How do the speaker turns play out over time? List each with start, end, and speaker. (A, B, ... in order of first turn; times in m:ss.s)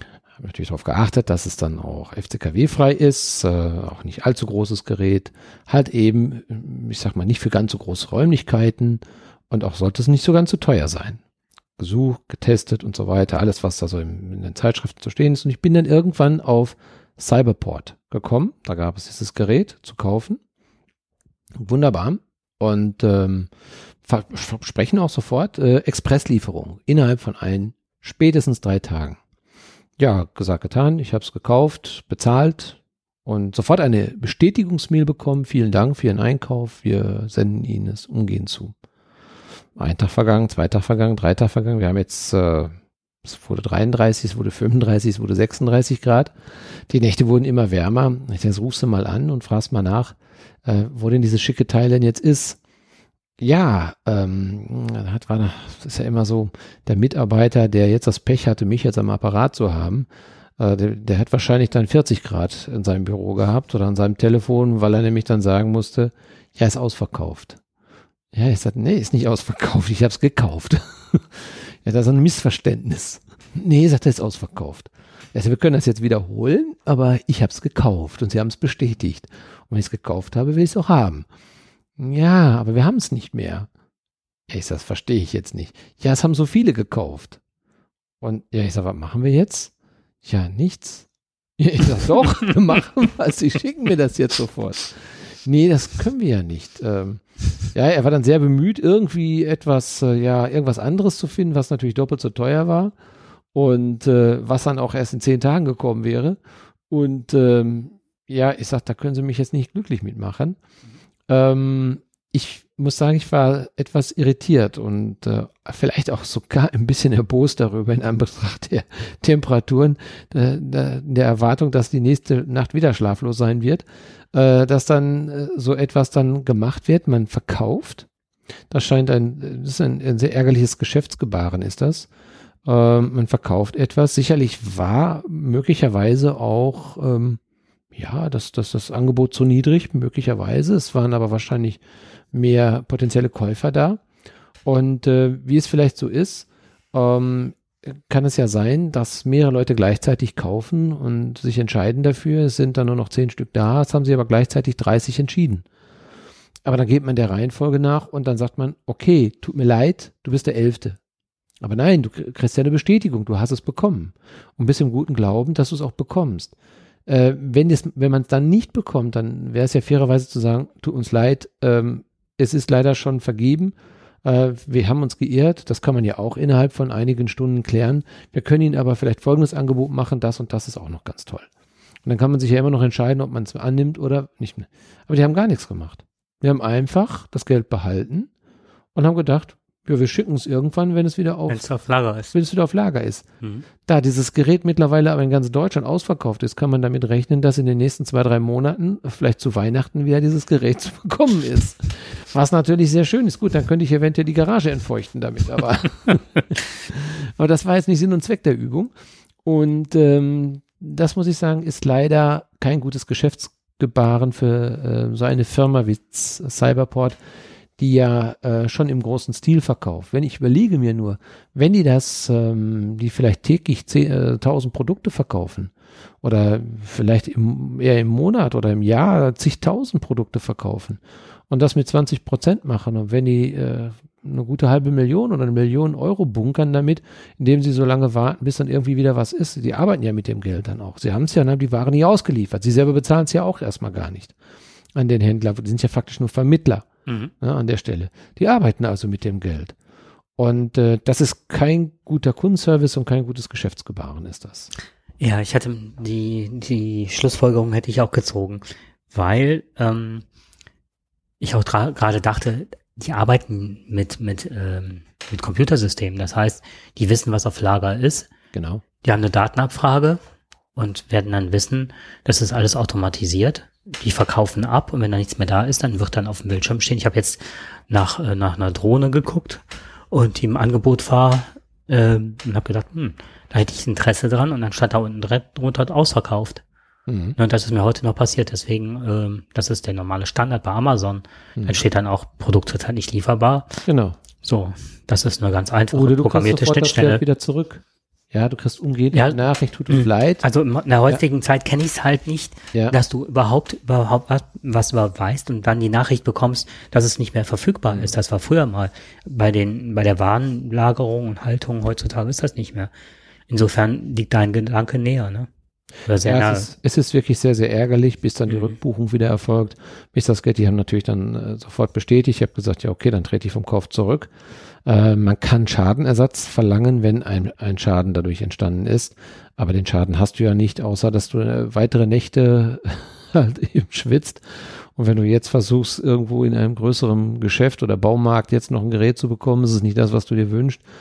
0:00.4-0:11.2 A
0:11.8-0:20.4 A
0:21.6-0:23.5 A
0:24.0-0:29.2 A
0:30.0-0:38.7 A
0:39.8-0:42.7 A
0:43.2-0:46.4 A
0:46.9-0:52.6 A
0:53.4-1:07.6 A
1:08.3-1:21.3 A
1:22.0-1:23.7 A
1:24.5-1:27.4 A
1:28.2-1:29.7 A
1:30.2-1:43.0 A
1:43.5-1:50.6 A
1:51.3-2:08.1 A
2:08.7-2:12.1 A
2:12.6-2:17.4 A
2:18.0-2:21.8 A
2:22.3-2:24.0 A
2:24.6-2:35.6 A
2:36.6-2:41.0 A
2:41.6-2:46.5 A
2:47.1-3:01.5 A
3:02.0-3:08.3 A
3:09.0-3:11.7 A
3:11.5-3:12.4 B
3:12.3-3:13.3 A
3:13.8-3:28.9 A
3:29.4-3:37.2 A
3:37.8-4:04.3 A
4:05.0-4:06.9 A
4:07.1-4:07.3 B
4:07.4-4:09.8 A
4:10.4-4:14.7 A
4:15.2-4:20.2 B
4:21.4-4:28.3 B
4:28.5-4:28.8 A
4:29.0-4:30.2 B
4:30.8-4:46.6 B
4:47.1-4:47.4 A
4:47.4-4:53.8 B
4:53.9-4:54.2 A
4:54.4-4:57.2 B
4:55.9-5:00.4 A
4:59.1-5:12.9 B
5:13.5-5:15.5 B
5:16.1-5:16.7 B
5:16.2-5:24.3 A
5:24.8-5:40.8 A